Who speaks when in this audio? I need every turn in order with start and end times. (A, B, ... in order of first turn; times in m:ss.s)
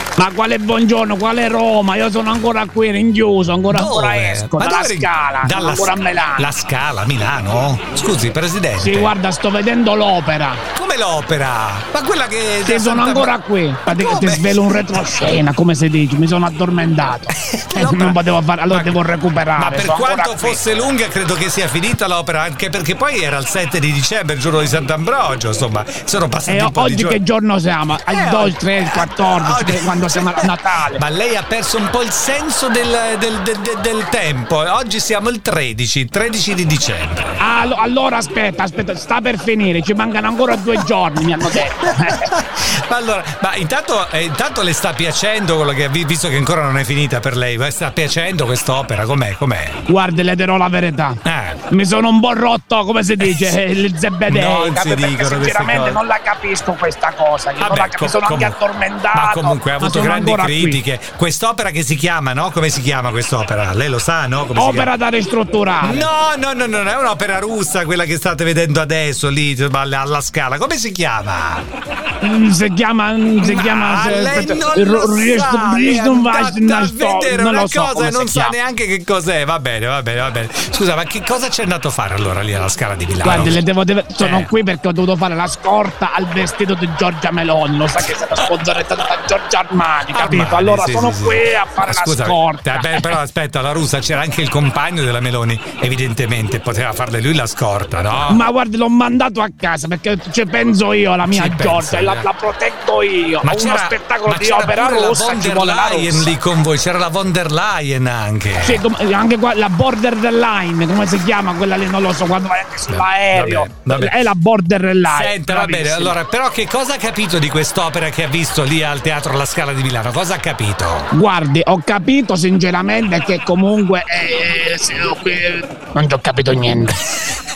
0:00.2-0:06.6 A
0:03.7-0:09.1 B
0:08.8-0:10.6 A
0:10.8-0:13.3 B
0:12.6-0:20.6 A
0:13.9-0:15.2 B
0:17.5-0:18.2 B
0:18.7-0:19.0 B
0:19.6-0:27.2 B
0:26.5-0:31.0 A
0:28.0-0:37.5 B
0:37.4-0:42.3 A
0:42.0-0:49.8 B
0:49.9-0:51.2 A
0:51.2-0:51.6 B
0:51.7-1:00.8 A
0:53.2-0:53.5 B
0:54.3-0:56.0 B
0:57.6-0:58.6 B
0:59.1-1:04.9 B
1:04.6-1:06.1 A
1:05.8-1:11.6 B
1:12.2-1:18.6 A
1:13.4-1:23.6 B
1:23.2-1:33.1 A
1:24.2-1:24.5 B
1:30.1-1:38.4 B
1:38.3-1:46.3 A
1:41.2-1:42.3 B
1:43.4-1:48.8 B
1:48.6-1:56.2 A
1:52.9-1:54.3 B
1:55.0-2:01.1 B
2:01.1-2:07.0 A